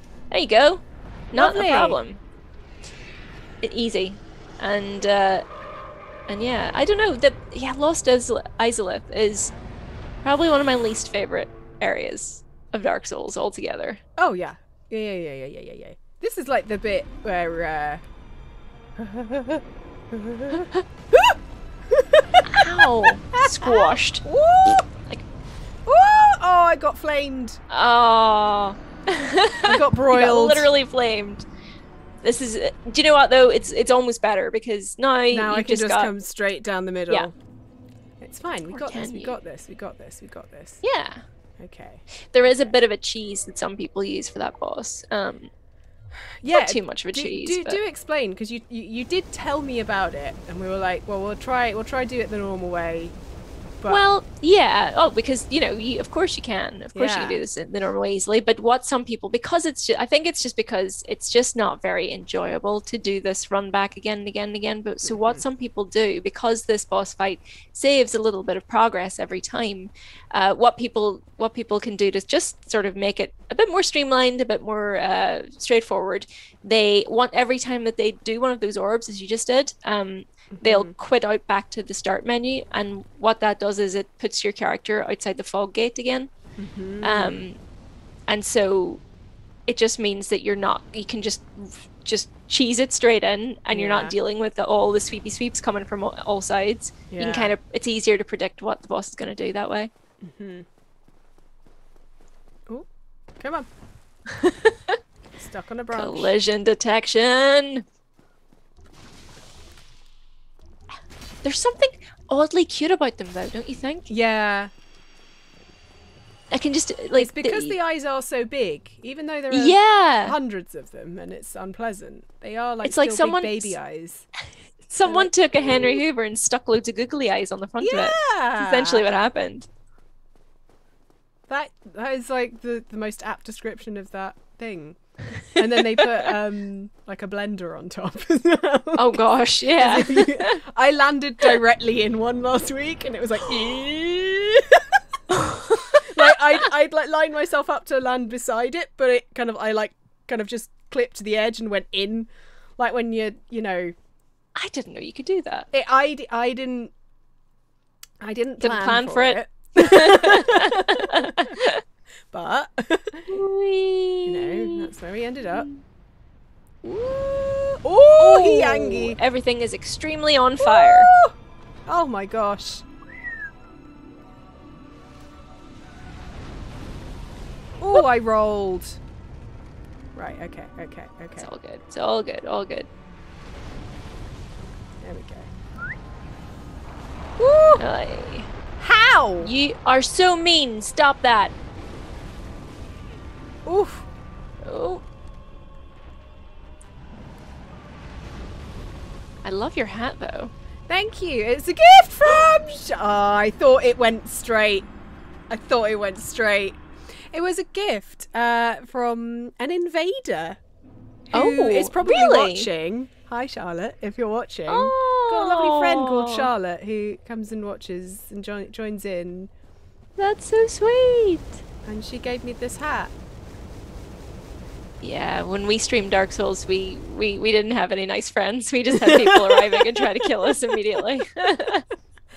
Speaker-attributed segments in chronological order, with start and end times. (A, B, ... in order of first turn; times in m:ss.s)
0:00.3-0:02.2 A
0:01.3-0:02.0 B
0:03.6-0:05.4 A
0:06.3-0:09.5 A
0:10.2-0:14.0 A
0:14.2-0:18.0 B
0:19.0-0:24.8 B
0:22.4-0:25.2 A
0:25.8-0:27.6 B
0:27.7-0:31.4 A
0:29.6-0:30.7 B
0:32.2-0:36.1 A
0:35.3-0:37.3 B
0:38.2-0:40.8 B
0:38.7-0:39.4 A
0:40.8-0:41.2 A
0:41.6-0:42.8 B
0:42.2-0:45.5 A
0:46.2-0:53.1 B
0:46.5-0:47.8 A
0:53.9-1:26.3 A
0:56.9-0:57.4 B
1:05.0-1:05.4 B
1:20.6-1:20.9 B
1:26.6-1:27.4 B
1:27.0-1:27.6 A
1:28.3-1:29.0 A
1:29.7-1:39.9 A
1:33.7-1:34.1 B
1:37.1-1:37.5 B
1:40.2-1:40.6 B
1:43.4-1:43.7 B
1:44.4-1:45.0 A
1:45.3-1:46.3 B
1:45.9-1:47.8 A
1:51.4-1:54.1 A
1:54.1-1:54.7 B
1:56.5-1:57.8 A
1:57.1-2:04.3 B
1:59.5-2:00.4 A
2:02.8-2:03.8 A
2:04.9-2:09.7 A
2:05.0-2:06.0 B
2:07.8-2:09.0 B
2:11.5-2:25.0 B
2:19.0-2:20.6 A
2:25.3-2:26.2 A
2:25.9-2:33.9 B
2:34.6-2:35.7 A
2:35.7-2:36.9 B
2:38.2-2:41.6 B
2:38.6-2:41.8 A
2:42.3-2:43.3 B
2:43.2-2:44.9 A
2:44.2-2:45.7 B
2:45.5-2:45.8 A
2:46.8-2:49.2 B
2:48.2-2:51.2 A
2:50.6-2:52.9 B
2:57.8-2:59.0 B
3:00.1-3:01.5 B
3:01.4-3:02.9 A
3:05.0-3:05.5 B
3:07.4-3:07.8 B
3:07.8-3:08.5 A
3:08.8-3:09.5 B
3:09.4-3:11.5 A
3:13.6-3:14.1 B
3:14.6-3:15.0 A
3:19.4-3:20.5 A
3:20.9-3:24.9 B
3:25.5-3:30.6 B
3:31.3-3:39.5 B
3:31.3-3:32.7 A
3:34.7-3:36.5 A
3:40.2-3:41.6 A
3:41.8-3:43.1 B
3:45.0-3:51.8 A
3:48.9-3:50.7 B